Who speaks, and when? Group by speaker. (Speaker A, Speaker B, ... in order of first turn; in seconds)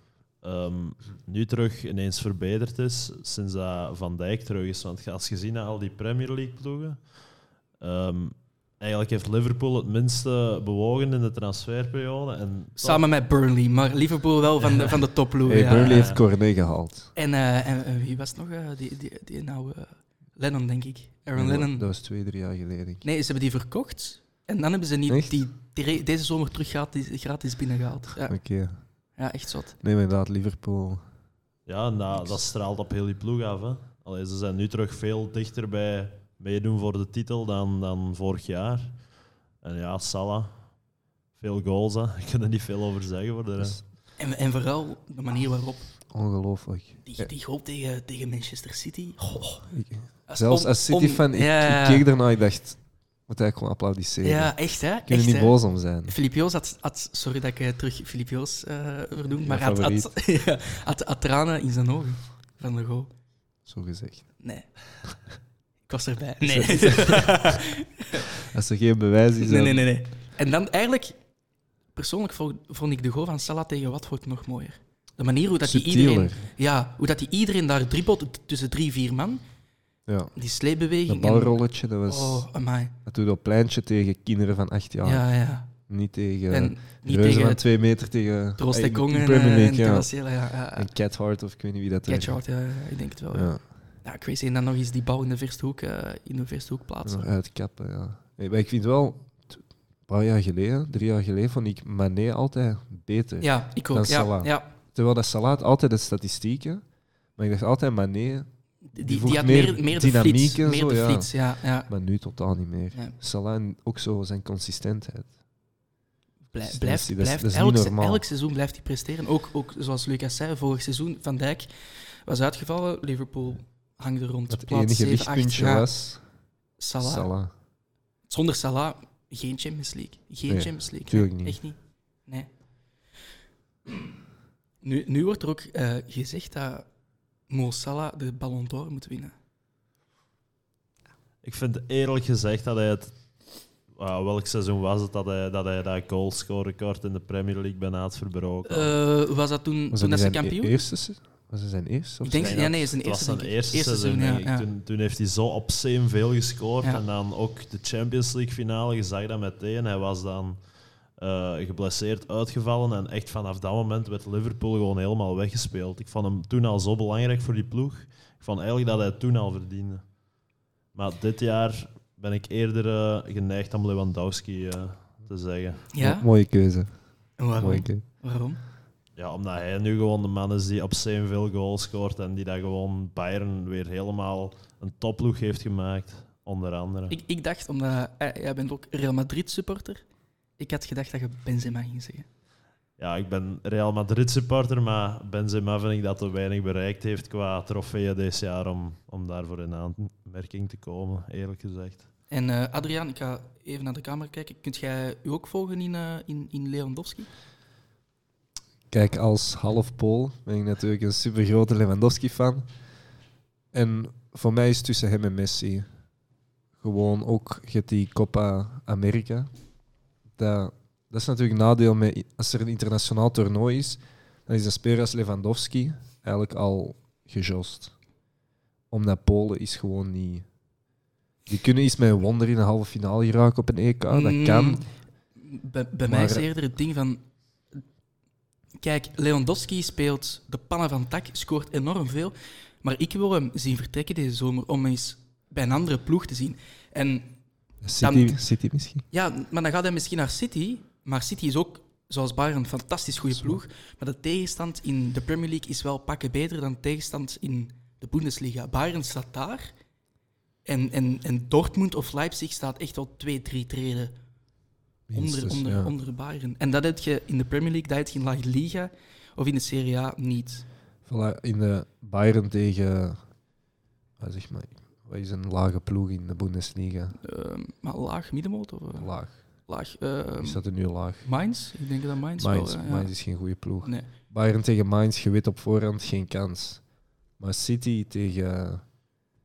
Speaker A: 0.4-7.1, 7.8-13.0, 14.7-15.0, 15.8-16.2, 31.6-39.0, 39.6-40.6, 41.4-43.8, 141.4-143.1, 143.9-148.9, 152.4-160.6, 161.2-170.0, 170.9-175.8, 179.2-187.2, 193.0-202.1
Speaker B: 12.8-16.1, 17.1-21.8, 23.0-28.4, 29.2-29.8, 44.2-45.9, 47.0-49.7, 50.3-52.0, 54.2-63.1, 64.4-64.7, 65.9-68.3, 69.4-71.1, 71.9-79.4, 80.3-83.0, 85.0-85.7, 86.5-87.6, 88.6-90.9, 92.1-93.5, 94.0-97.3, 103.4-104.7, 108.9-111.9, 116.5-121.7, 122.2-125.9, 126.8-127.3, 128.3-132.5, 134.8-136.8, 137.5-139.3, 148.7-150.8, 152.2-154.7, 175.9-176.2, 177.4-178.6, 187.1-190.0, 190.6-192.3, 202.3-207.3, 234.1-237.2, 238.8-247.3, 248.0-248.4, 249.1-259.7, 260.6-264.1, 265.1-270.6, 277.2-279.1, 279.6-280.6, 281.2-283.1, 283.8-284.1
Speaker C: 15.4-17.1, 21.3-23.0, 25.1-25.4, 28.2-28.8, 29.8-31.0, 46.1-47.3, 49.7-56.1, 59.5-60.1, 63.6-64.3, 66.5-67.6, 68.3-69.8, 75.6-76.5, 80.1-80.3, 81.0-82.5, 83.0-85.3, 85.9-90.1, 90.7-92.4, 93.3-93.7, 97.0-106.8, 107.4-111.3, 111.9-115.3, 116.7-118.2, 124.5-126.2, 127.0-127.5, 130.5-131.6, 149.9-152.6, 176.0-176.9, 177.6-178.0, 208.9-212.7, 213.7-215.8, 216.8-219.5, 220.4-227.9, 228.9-230.4, 231.5-234.8, 236.1-236.5, 247.8-249.0, 253.3-253.6, 265.1-265.9, 271.1-273.2, 274.2-277.2, 279.0-279.4, 280.4-281.3, 282.4-286.8, 287.4-288.8